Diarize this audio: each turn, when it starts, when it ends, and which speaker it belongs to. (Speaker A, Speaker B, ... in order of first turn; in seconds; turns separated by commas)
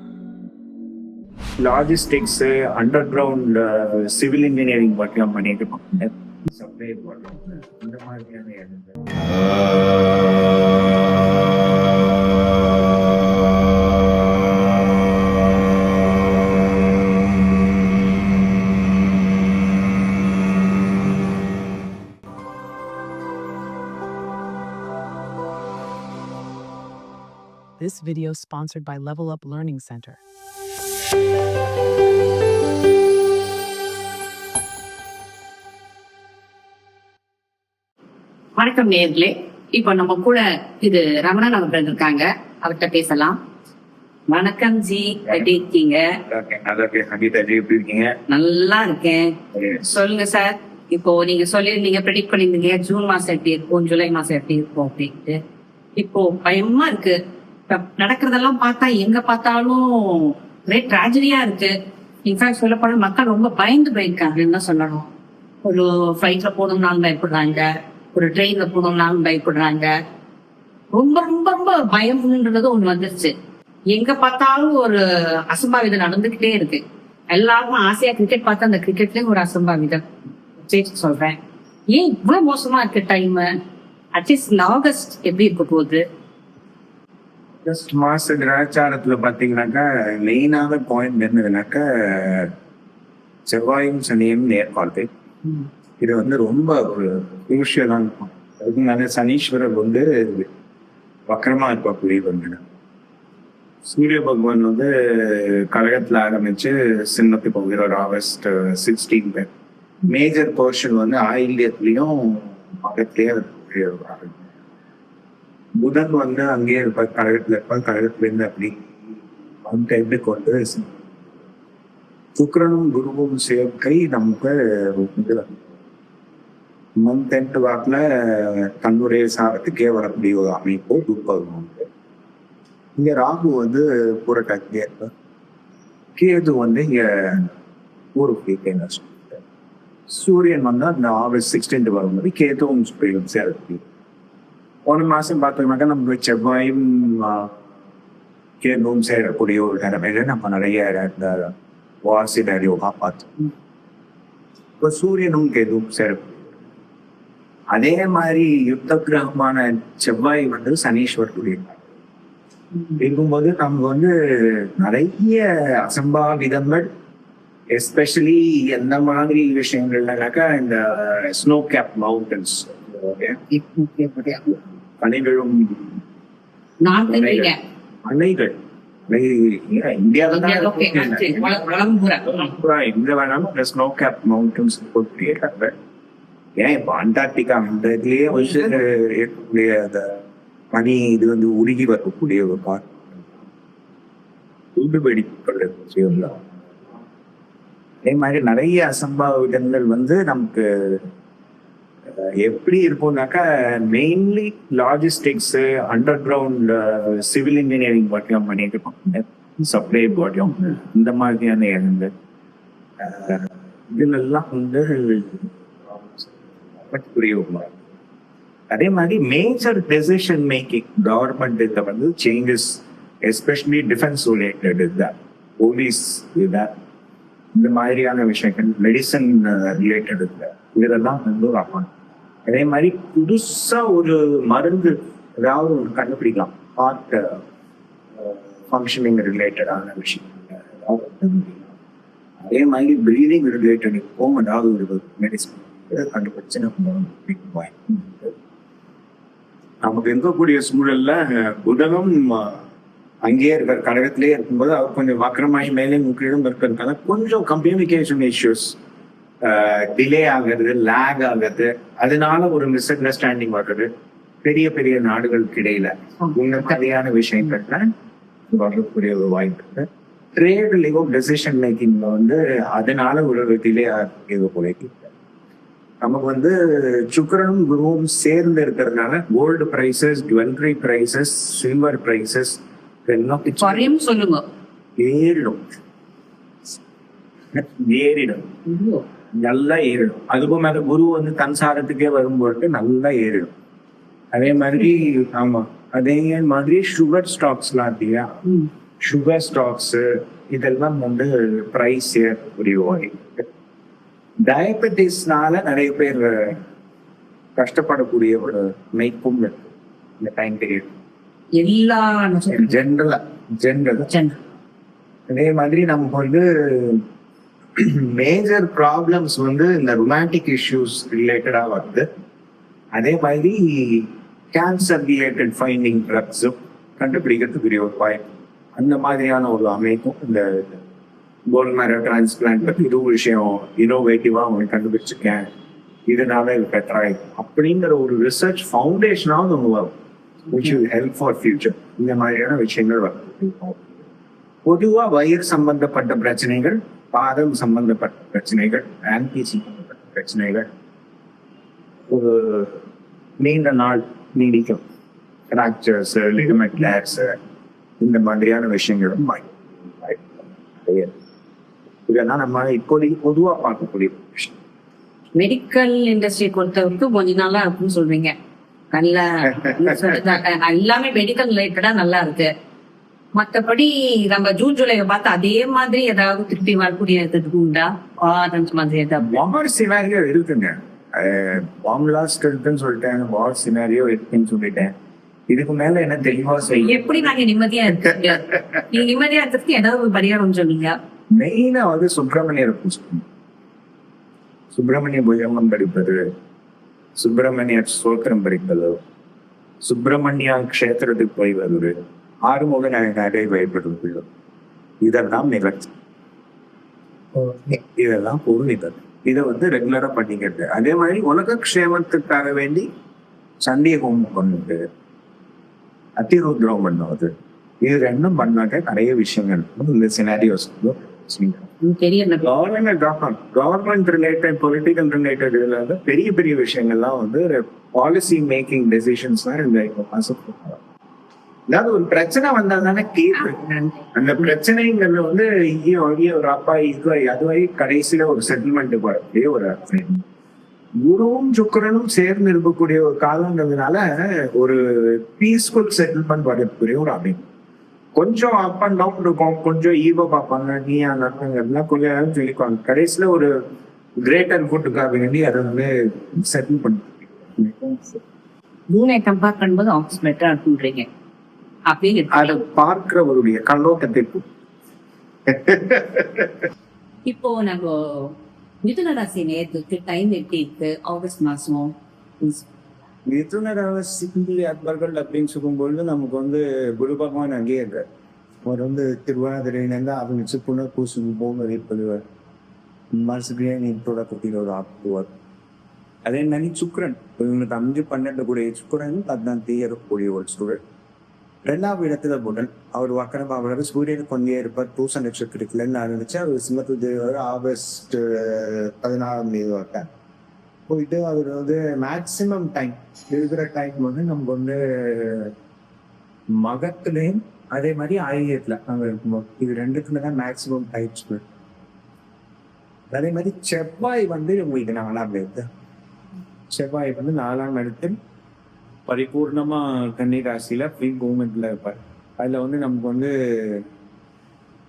Speaker A: 1.6-9.4, Speaker B: 27.8-30.2, Speaker C: 38.6-43.4, Speaker C: 44.3-46.0, Speaker A: 45.3-45.5, Speaker A: 46.2-48.1, Speaker C: 48.3-55.4, Speaker A: 49.5-49.9, Speaker C: 56.0-57.2, Speaker C: 57.7-61.7, Speaker C: 62.3-65.1, Speaker C: 65.6-69.9, Speaker C: 70.9-73.3, Speaker C: 73.9-80.0, Speaker C: 80.7-81.4, Speaker C: 81.9-83.5, Speaker C: 84.1-86.0, Speaker A: 87.6-92.5, Speaker A: 93.5-95.1, Speaker A: 96.0-100.5, Speaker A: 101.3-102.6, Speaker A: 103.8-109.5, Speaker A: 110.1-114.5, Speaker A: 115.8-118.8, Speaker A: 119.7-121.0, Speaker A: 122.3-125.5, Speaker A: 127.0-131.9, Speaker A: 133.0-135.1, Speaker A: 136.2-137.5, Speaker A: 138.2-139.4, Speaker A: 140.1-143.8, Speaker A: 144.9-147.5, Speaker A: 148.6-151.5, Speaker A: 152.1-153.4, Speaker A: 154.8-156.5, Speaker A: 157.7-161.9, Speaker A: 163.0-166.9, Speaker A: 167.7-173.4, Speaker C: 173.5-174.6, Speaker A: 175.0-176.0, Speaker C: 176.8-177.6, Speaker A: 177.1-177.5, Speaker A: 178.1-178.6, Speaker A: 179.1-181.7, Speaker C: 180.3-182.5, Speaker A: 182.2-185.7, Speaker A: 186.6-190.2, Speaker A: 190.7-193.3, Speaker A: 194.8-196.4, Speaker A: 198.1-201.1, Speaker A: 202.1-212.1, Speaker A: 213.0-217.8, Speaker A: 218.7-226.8, Speaker A: 227.6-231.9, Speaker A: 232.5-237.4, Speaker A: 238.2-241.7, Speaker A: 242.4-248.3, Speaker A: 249.8-252.6, Speaker A: 253.2-258.8, Speaker A: 259.4-263.9, Speaker A: 264.4-267.9, Speaker A: 268.5-275.1, Speaker A: 276.0-283.9, Speaker C: 283.6-284.4, Speaker A: 285.0-285.6, Speaker A: 287.5-288.5, Speaker C: 288.7-289.0, Speaker A: 289.4-293.5, Speaker A: 294.3-298.4, Speaker A: 299.0-303.5, Speaker A: 304.4-306.6, Speaker A: 307.6-310.9, Speaker C: 311.6-312.8, Speaker A: 312.5-314.1, Speaker C: 314.1-314.4, Speaker A: 315.3-317.0, Speaker A: 317.8-322.1, Speaker A: 322.9-330.8, Speaker A: 331.5-335.5, Speaker A: 336.1-339.9, Speaker A: 340.5-344.0, Speaker A: 344.6-350.7, Speaker A: 352.1-352.8, Speaker A: 353.4-354.8, Speaker A: 355.5-357.4, Speaker A: 358.0-361.2, Speaker A: 362.1-364.6, Speaker C: 365.4-368.3, Speaker C: 368.9-372.5, Speaker A: 369.6-370.2, Speaker C: 373.4-379.4, Speaker A: 379.2-384.9, Speaker A: 385.5-387.3, Speaker C: 386.7-390.9, Speaker A: 387.9-388.8, Speaker A: 391.3-393.2, Speaker A: 394.7-396.3, Speaker A: 397.2-399.0, Speaker A: 399.8-401.9, Speaker A: 402.5-404.3, Speaker A: 405.0-405.9, Speaker A: 407.4-412.9, Speaker A: 413.6-414.8, Speaker A: 416.2-417.3, Speaker A: 417.8-421.7, Speaker C: 421.8-422.4, Speaker A: 422.4-430.8, Speaker A: 431.7-440.2, Speaker A: 441.0-447.5, Speaker A: 448.1-453.5, Speaker A: 454.2-458.2, Speaker C: 458.9-461.1, Speaker C: 461.9-462.6, Speaker A: 462.3-464.4, Speaker A: 465.5-466.5, Speaker C: 467.3-468.3, Speaker C: 468.8-472.7, Speaker A: 473.3-478.0, Speaker A: 478.6-482.2, Speaker A: 483.1-485.3, Speaker A: 486.2-490.8, Speaker A: 491.6-500.1, Speaker A: 500.9-505.5, Speaker A: 506.6-511.4, Speaker A: 513.1-515.7, Speaker A: 516.7-518.2, Speaker A: 519.1-523.9